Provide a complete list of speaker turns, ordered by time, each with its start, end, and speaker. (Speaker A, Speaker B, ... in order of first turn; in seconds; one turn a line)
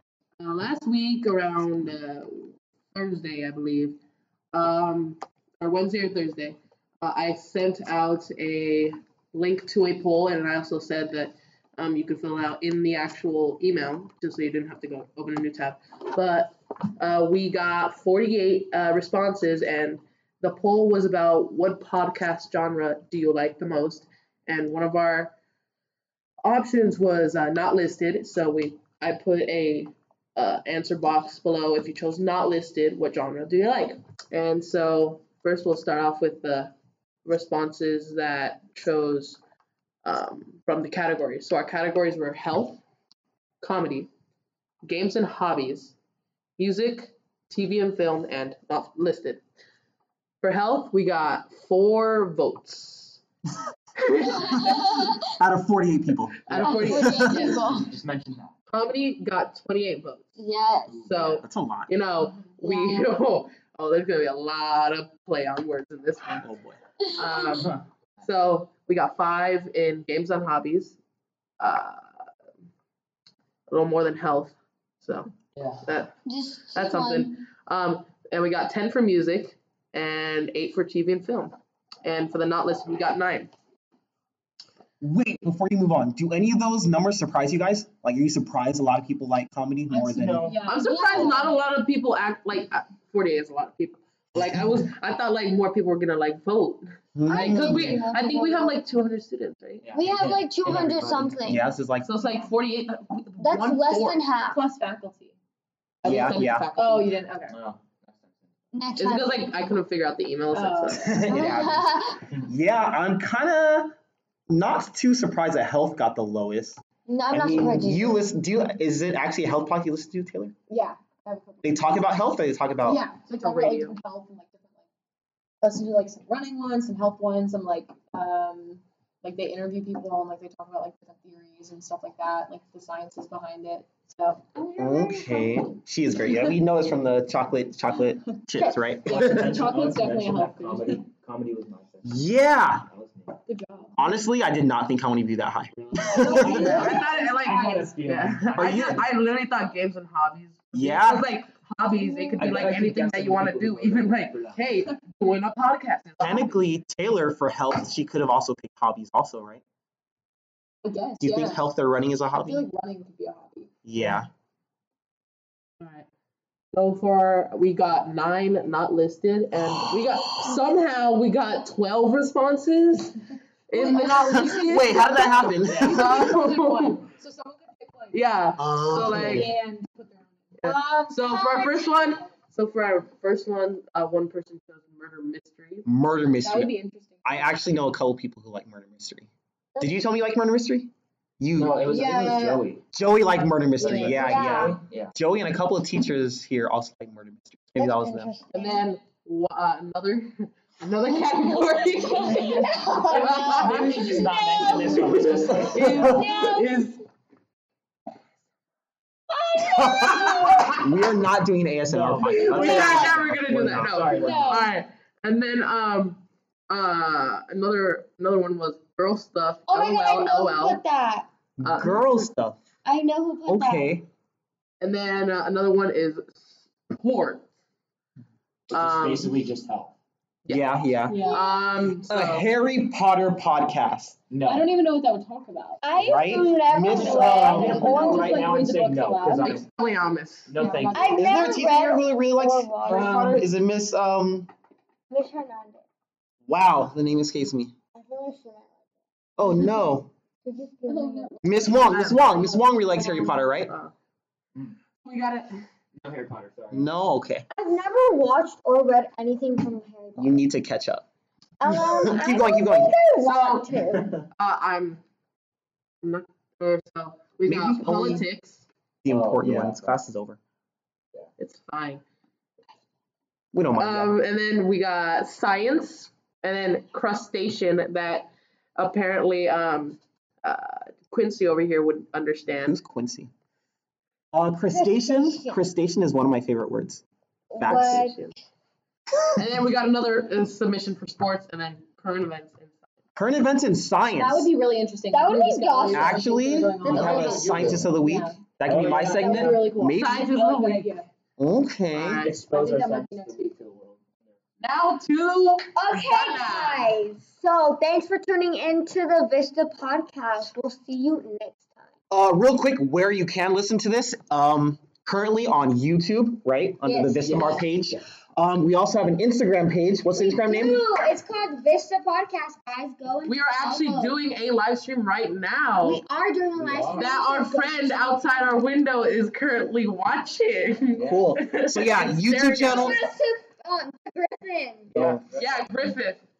Speaker A: 0.4-4.0
Speaker A: 4.5-25.3
Speaker A: 26.4-39.4
Speaker A: 40.0-42.8
Speaker A: 43.6-44.1
Speaker A: 44.8-46.0
Speaker A: 46.6-49.4
Speaker A: 50.4-53.2
Speaker A: 54.0-55.0
Speaker B: 54.4-55.2
Speaker C: 54.4-57.5
Speaker A: 56.5-57.7
Speaker D: 56.5-58.5
Speaker B: 56.6-57.9
Speaker A: 58.7-60.3
Speaker B: 60.4-61.0
Speaker D: 60.9-61.4
Speaker A: 61.0-66.5
Speaker C: 61.4-61.9
Speaker B: 62.6-63.1
Speaker C: 66.4-66.8
Speaker B: 67.0-67.6
Speaker A: 67.2-71.0
Speaker D: 67.5-67.8
Speaker A: 71.6-72.1
Speaker A: 73.7-75.3
Speaker D: 75.5-75.8
Speaker A: 75.8-76.1
Speaker B: 76.2-77.4
Speaker A: 76.7-83.5
Speaker C: 85.0-90.5
Speaker E: 89.9-91.6
Speaker D: 90.1-90.6
Speaker A: 90.7-99.9
Speaker B: 90.9-91.4
Speaker C: 97.2-98.0
Speaker B: 97.3-98.7
Speaker D: 99.8-101.4
Speaker B: 99.9-101.7
Speaker C: 101.5-102.1
Speaker A: 102.0-104.2
Speaker B: 103.4-104.6
Speaker E: 104.5-105.3
Speaker A: 106.0-107.2
Speaker C: 106.0-106.7
Speaker E: 106.8-107.6
Speaker D: 107.5-108.5
Speaker B: 108.7-109.5
Speaker A: 108.9-111.4
Speaker E: 110.5-111.2
Speaker C: 110.9-113.9
Speaker B: 111.3-112.2
Speaker C: 114.5-120.5
Speaker B: 117.0-118.2
Speaker E: 120.7-122.1
Speaker C: 121.6-123.0
Speaker E: 122.8-124.8
Speaker A: 123.3-124.0
Speaker E: 125.6-135.6
Speaker B: 134.6-135.4
Speaker C: 134.8-139.6
Speaker E: 138.5-141.0
Speaker D: 139.1-142.2
Speaker C: 142.0-142.9
Speaker D: 142.8-143.4
Speaker E: 143.4-143.9
Speaker C: 144.0-146.8
Speaker D: 145.7-149.0
Speaker E: 146.1-147.9
Speaker A: 146.3-156.5
Speaker C: 148.6-149.0
Speaker C: 150.7-151.2
Speaker D: 152.3-154.6
Speaker C: 156.2-159.6
Speaker E: 160.8-161.6
Speaker C: 161.2-162.7
Speaker E: 162.4-163.7
Speaker C: 163.8-164.3
Speaker A: 165.8-166.1
Speaker A: 166.7-177.1
Speaker E: 173.8-175.1
Speaker C: 174.4-176.4
Speaker D: 175.6-176.0
Speaker E: 175.8-178.2
Speaker A: 178.1-179.5
Speaker C: 178.6-179.5
Speaker E: 179.0-180.5
Speaker A: 180.6-185.9
Speaker B: 180.6-181.9
Speaker C: 185.8-186.7
Speaker E: 186.4-187.6
Speaker C: 187.2-192.2
Speaker D: 191.5-192.8
Speaker E: 191.8-192.7
Speaker C: 192.9-198.3
Speaker D: 193.8-195.1
Speaker B: 194.0-194.8
Speaker B: 197.8-198.9
Speaker A: 198.5-204.2
Speaker B: 202.2-205.1
Speaker E: 202.2-203.5
Speaker D: 203.4-206.2
Speaker C: 203.7-206.5
Speaker A: 204.9-207.0
Speaker E: 206.0-206.6
Speaker B: 206.0-206.7
Speaker B: 209.4-210.7
Speaker C: 209.8-214.3
Speaker A: 210.1-210.9
Speaker D: 211.9-214.7
Speaker A: 212.2-220.8
Speaker E: 214.1-214.7
Speaker B: 219.7-221.3
Speaker C: 221.6-222.6
Speaker A: 221.6-222.2
Speaker B: 222.8-224.0
Speaker C: 223.5-224.1
Speaker A: 224.8-227.5
Speaker D: 228.7-229.9
Speaker A: 228.7-229.3
Speaker A: 230.4-232.5
Speaker C: 230.5-231.3
Speaker E: 231.1-231.7
Speaker B: 231.2-231.5
Speaker C: 232.1-234.2
Speaker D: 234.3-234.7
Speaker E: 234.4-235.8
Speaker B: 235.8-238.5
Speaker C: 236.0-238.0
Speaker D: 236.8-239.7
Speaker E: 236.9-239.6
Speaker A: 239.4-240.6
Speaker D: 240.5-241.2
Speaker E: 240.6-241.6
Speaker B: 240.9-243.5
Speaker C: 241.2-244.5
Speaker D: 242.8-243.4
Speaker B: 245.1-245.8
Speaker C: 246.5-247.7
Speaker B: 247.9-248.8
Speaker C: 249.4-250.1
Speaker B: 249.4-249.9
Speaker B: 250.4-251.3
Speaker E: 250.8-252.6
Speaker C: 251.4-253.7
Speaker A: 251.8-252.4
Speaker A: 253.2-253.9
Speaker A: 255.0-255.7
Speaker D: 256.0-256.9
Speaker C: 256.7-257.4
Speaker B: 257.5-260.4
Speaker C: 260.1-261.0
Speaker B: 261.6-264.1
Speaker C: 261.6-263.0
Speaker A: 263.2-265.0
Speaker D: 263.9-264.2
Speaker A: 266.0-268.6
Speaker C: 267.4-268.2
Speaker C: 269.0-270.4
Speaker D: 269.1-270.1
Speaker A: 271.4-272.0
Speaker C: 273.5-274.1
Speaker A: 273.8-282.8
Speaker C: 282.6-283.3
Speaker C: 284.3-287.0
Speaker B: 284.7-285.6
Speaker B: 287.5-288.2
Speaker C: 287.6-288.1
Speaker A: 287.9-288.3
Speaker A: 289.4-292.8
Speaker C: 293.1-294.5
Speaker E: 294.1-301.1
Speaker B: 295.1-296.2
Speaker C: 295.9-300.3
Speaker B: 296.8-297.7
Speaker D: 296.9-297.9
Speaker A: 297.0-297.3
Speaker D: 298.6-299.7
Speaker A: 299.9-300.9
Speaker C: 301.4-302.2
Speaker A: 301.9-302.4
Speaker D: 302.0-304.4
Speaker E: 302.3-303.5
Speaker A: 304.6-307.0
Speaker B: 305.7-311.9
Speaker C: 312.1-320.8
Speaker B: 316.9-317.6
Speaker D: 317.2-318.0
Speaker B: 320.1-324.2
Speaker A: 323.2-326.0
Speaker B: 325.8-328.5
Speaker D: 326.5-327.1
Speaker A: 326.9-333.0
Speaker D: 330.9-331.3
Speaker C: 331.0-333.0
Speaker B: 332.6-334.9
Speaker D: 334.9-335.6
Speaker C: 334.9-335.2
Speaker A: 335.3-336.2